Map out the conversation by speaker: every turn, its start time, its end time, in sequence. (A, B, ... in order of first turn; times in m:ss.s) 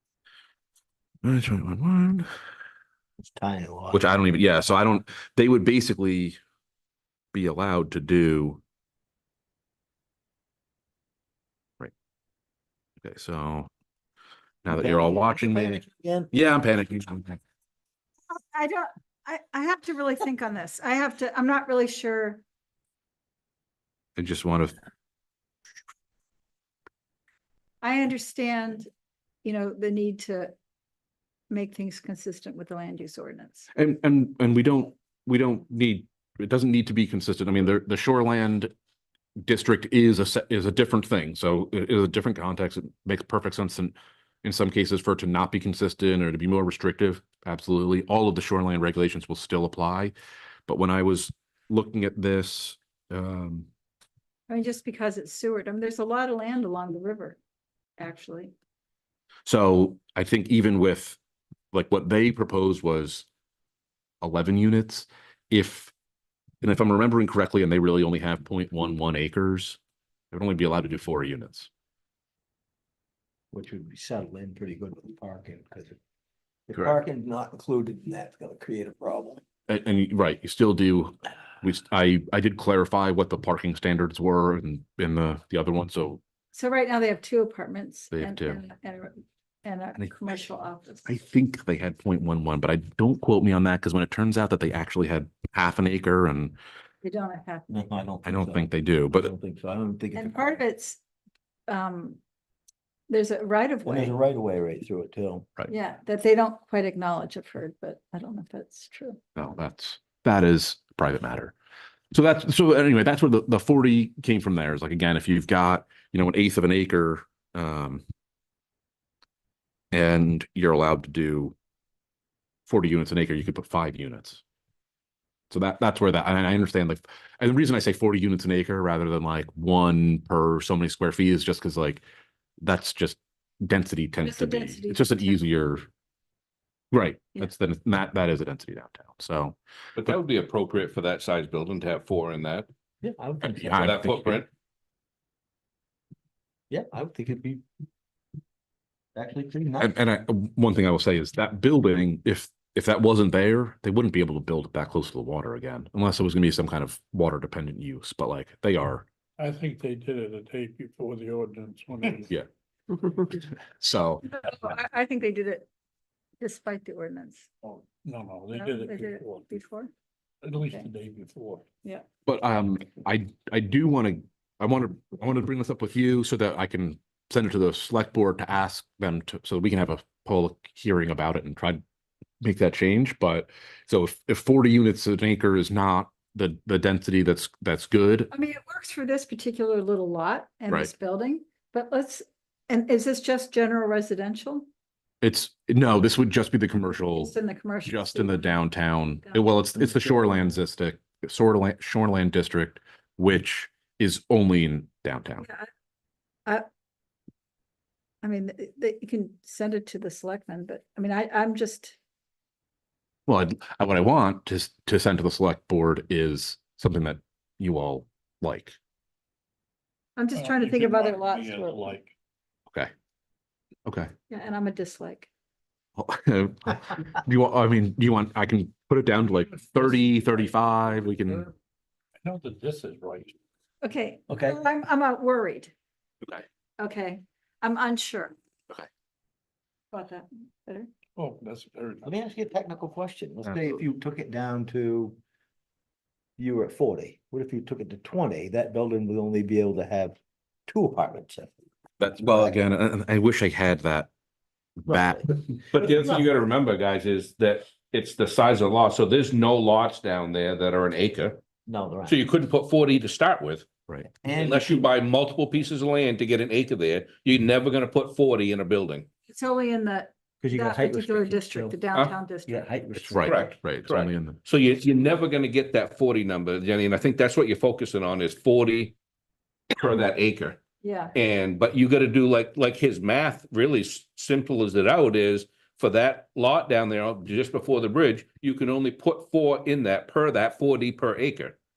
0:01.2-0:02.3 A
0:03.2-0:04.0 B
0:03.9-0:06.4 A
0:07.3-0:08.6 A
0:13.0-0:13.7 A
0:14.6-0:17.4 A
0:14.7-0:16.3 B
0:18.3-0:22.4 C
0:24.2-0:24.8 A
0:27.8-0:28.9 C
0:29.4-0:30.5 C
0:31.5-0:33.7 C
0:33.7-0:38.7 A
0:39.4-0:50.1 A
0:50.7-0:53.7 A
0:54.5-0:57.4 C
0:58.0-0:58.5 C
0:59.4-1:01.2 A
1:01.7-1:03.3 A
1:04.2-1:05.9 A
1:06.6-1:09.8 A
1:10.3-1:11.7 A
1:13.5-1:16.0 B
1:16.7-1:19.4 B
1:19.7-1:26.2 A
1:26.5-1:31.1 C
1:28.1-1:28.6 A
1:30.0-1:30.4 A
1:31.1-1:36.6 A
1:37.0-1:37.8 C
1:37.7-1:40.6 B
1:38.2-1:39.3 A
1:40.1-1:41.0 C
1:41.7-1:42.2 C
1:43.1-1:44.1 C
1:43.9-1:45.5 B
1:45.7-1:49.2 C
1:49.4-1:51.6 A
1:52.1-1:58.0 A
1:59.9-2:01.6 A
2:02.7-2:04.4 A
2:05.5-2:12.0 A
2:12.6-2:15.8 A
2:14.2-2:15.4 C
2:16.9-2:19.6 A
2:20.0-2:22.7 D
2:23.0-2:24.1 B
2:23.4-2:24.4 A
2:23.7-2:24.5 D
2:26.7-2:27.6 B
2:29.1-2:29.9 B
2:29.8-2:39.1 A
2:39.4-2:42.3 E
2:43.3-2:44.3 A
2:44.3-2:45.7 C
2:46.4-2:47.5 C
2:47.6-2:49.5 E
2:48.5-2:49.9 C
2:50.4-2:51.7 E
2:52.2-3:01.8 A
3:02.4-3:08.3 A
3:08.3-3:14.7 C
3:15.2-3:17.3 A
3:17.1-3:18.6 C
3:17.8-3:25.4 A
3:19.9-3:20.2 B
3:25.4-3:25.7 C
3:28.2-3:32.0 C
3:33.3-3:38.8 A
3:40.2-3:41.9 C
3:40.3-3:42.1 E
3:43.8-3:44.1 A
3:44.3-3:45.3 C
3:46.0-3:51.5 A
3:52.2-3:53.4 E
3:53.8-3:55.7 C
3:54.3-3:54.6 B
3:56.8-3:58.3 C
3:59.9-4:00.9 C
4:01.2-4:02.1 E
4:02.0-4:05.2 B
4:06.4-4:11.5 B
4:12.0-4:14.1 A
4:14.8-4:15.3 A
4:14.9-4:15.3 B
4:15.7-4:21.4 D
4:15.9-4:16.2 B
4:21.7-4:22.2 B
4:22.1-4:23.7 D
4:24.1-4:24.9 B
4:24.3-4:29.1 D
4:29.3-4:32.7 C
4:30.4-4:31.8 B
4:32.5-4:33.6 B
4:33.0-4:34.4 A
4:33.2-4:38.9 D
4:39.7-4:40.6 D
4:40.8-4:41.1 C
4:41.1-4:51.6 D